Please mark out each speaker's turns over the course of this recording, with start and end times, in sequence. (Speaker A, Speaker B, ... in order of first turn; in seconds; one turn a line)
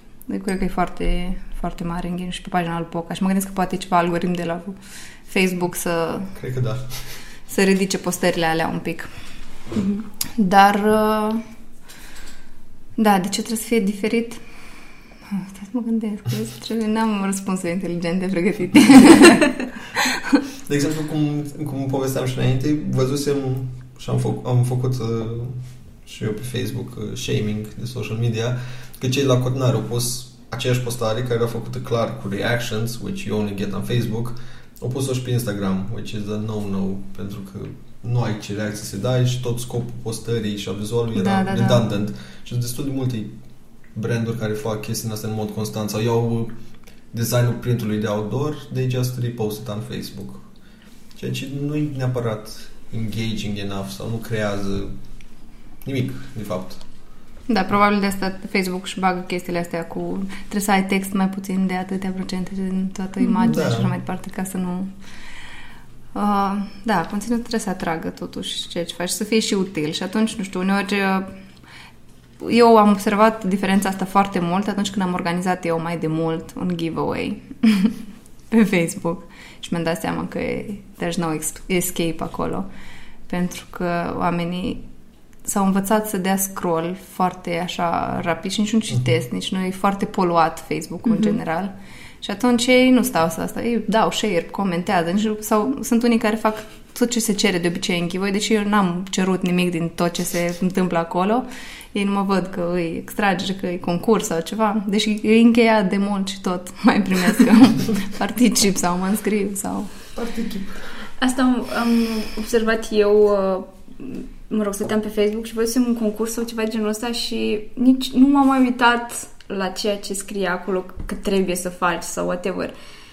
Speaker A: 0.3-6.3
Speaker B: 6.3-7.2
Speaker A: 7.5-9.1
Speaker A: 10.4-11.4
Speaker A: 13.0-14.4
Speaker A: 15.3-19.5
Speaker B: 20.7-43.3
Speaker A: 41.1-41.8
Speaker B: 43.9-46.5
Speaker B: 47.1-50.5
Speaker B: 51.1-54.9
Speaker B: 55.8-56.8
Speaker A: 57.5-64.9
Speaker C: 63.2-63.5
Speaker B: 63.4-63.9
Speaker A: 66.1-71.3
Speaker A: 72.4-78.0
Speaker A: 78.5-82.7
Speaker A: 83.3-84.8
Speaker A: 85.4-109.9
Speaker C: 91.0-91.4
Speaker B: 110.1-110.8
Speaker C: 111.2-122.7